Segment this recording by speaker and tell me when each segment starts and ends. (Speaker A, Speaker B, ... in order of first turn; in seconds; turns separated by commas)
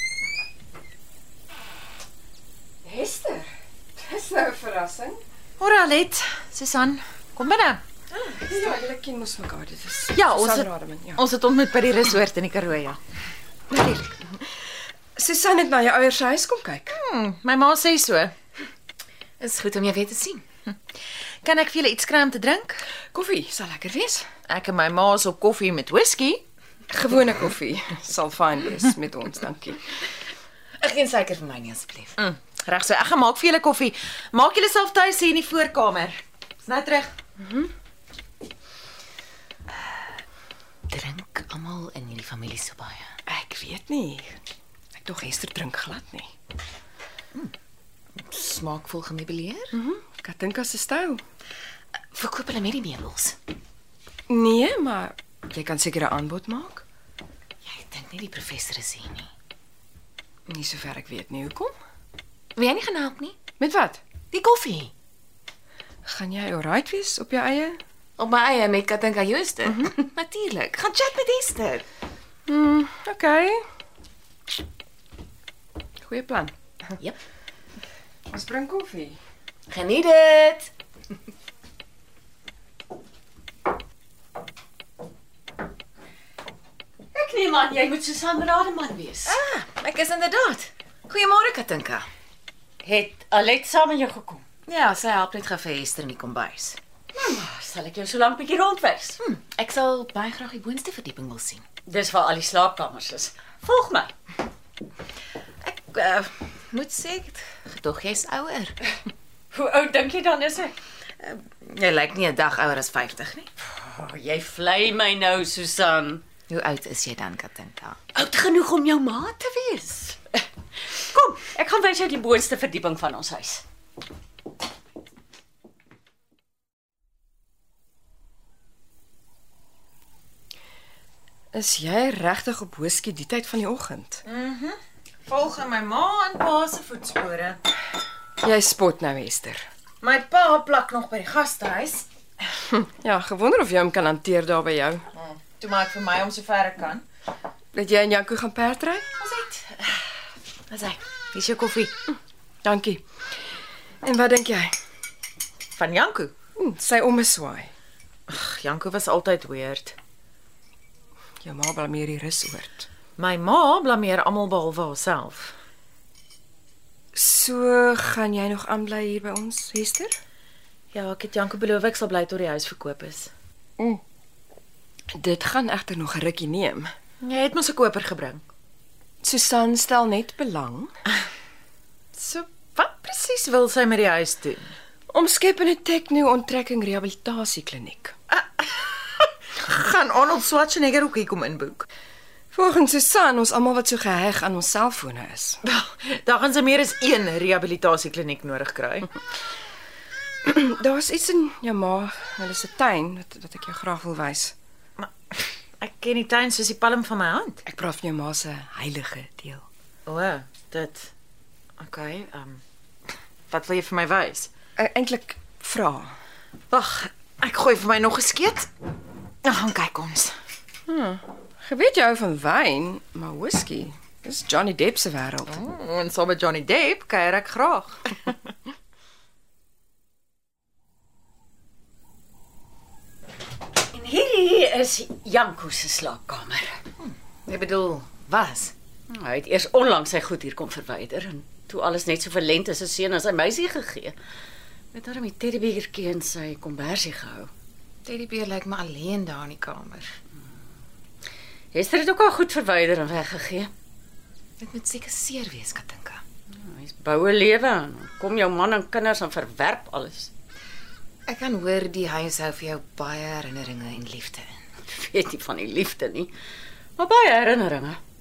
Speaker A: 2.8-5.2, Speaker B: 5.6-7.8, Speaker A: 8.2-11.2, Speaker B: 10.1-13.0, Speaker A: 13.8-14.2, Speaker A: 15.2-17.0, Speaker B: 16.9-18.3, Speaker C: 19.4-20.4, Speaker B: 21.4-22.8, Speaker A: 23.1-24.3, Speaker B: 24.5-26.4, Speaker A: 26.9-29.9, Speaker C: 30.8-32.2, Speaker B: 32.2-37.1, Speaker A: 37.4-37.7, Speaker C: 40.9-43.1, Speaker A: 43.3-44.4, Speaker A: 45.0-46.3, Speaker C: 48.3-49.7, Speaker A: 49.7-51.2, Speaker C: 52.1-53.3, Speaker A: 54.3-56.8, Speaker C: 57.6-59.3, Speaker A: 60.5-61.7, Speaker C: 62.5-63.4, Speaker A: 63.6-64.0, Speaker C: 64.3-64.9, Speaker A: 66.0-67.8, Speaker C: 68.2-71.8, Speaker A: 72.5-73.6, Speaker A: 76.0-76.5, Speaker A: 78.3-79.2, Speaker C: 79.7-80.7, Speaker D: 87.1-89.4, Speaker C: 89.2-92.0, Speaker D: 92.8-94.4, Speaker C: 94.7-96.8, Speaker D: 97.1-99.2, Speaker C: 99.2-101.6, Speaker D: 101.9-104.1, Speaker C: 105.6-108.8, Speaker D: 109.5-110.8, Speaker C: 111.2-113.5, Speaker D: 113.8-116.2, Speaker C: 116.5-118.0, Speaker D: 118.1-120.3, Speaker D: 121.1-123.6, Speaker A: 131.5-134.2, Speaker B: 134.2-137.6, Speaker A: 138.4-139.6, Speaker B: 140.0-142.1, Speaker A: 142.7-145.0, Speaker B: 145.1-147.0, Speaker A: 147.7-149.0, Speaker B: 149.2-149.8, Speaker C: 150.7-151.0, Speaker B: 151.3-151.9, Speaker A: 152.6-153.0, Speaker A: 154.0-154.7, Speaker B: 155.7-156.3, Speaker A: 156.6-157.7, Speaker B: 158.3-159.9, Speaker A: 161.4-162.9, Speaker B: 163.2-165.5, Speaker A: 167.1-170.1, Speaker B: 170.9-173.3, Speaker A: 175.1-176.9, Speaker B: 177.2-178.4, Speaker A: 179.2-180.9, Speaker B: 182.1-184.7, Speaker A: 185.1-188.1, Speaker B: 188.3-191.8, Speaker A: 192.5-195.6, Speaker B: 195.7-199.1, Speaker A: 200.4-204.5, Speaker B: 205.0-207.6, Speaker A: 207.7-209.7, Speaker B: 210.1-211.1, Speaker B: 211.8-212.6, Speaker B: 213.5-214.5, Speaker A: 214.8-216.1, Speaker B: 216.7-218.7, Speaker B: 219.4-220.3, Speaker A: 220.9-225.6, Speaker B: 225.5-228.3, Speaker D: 233.9-236.7, Speaker C: 237.0-238.7, Speaker D: 239.1-244.1, Speaker D: 244.9-247.5, Speaker C: 248.0-250.1, Speaker D: 251.7-253.7, Speaker C: 254.6-256.2, Speaker D: 256.5-260.3, Speaker C: 261.3-264.6, Speaker D: 264.9-266.3, Speaker D: 267.0-268.0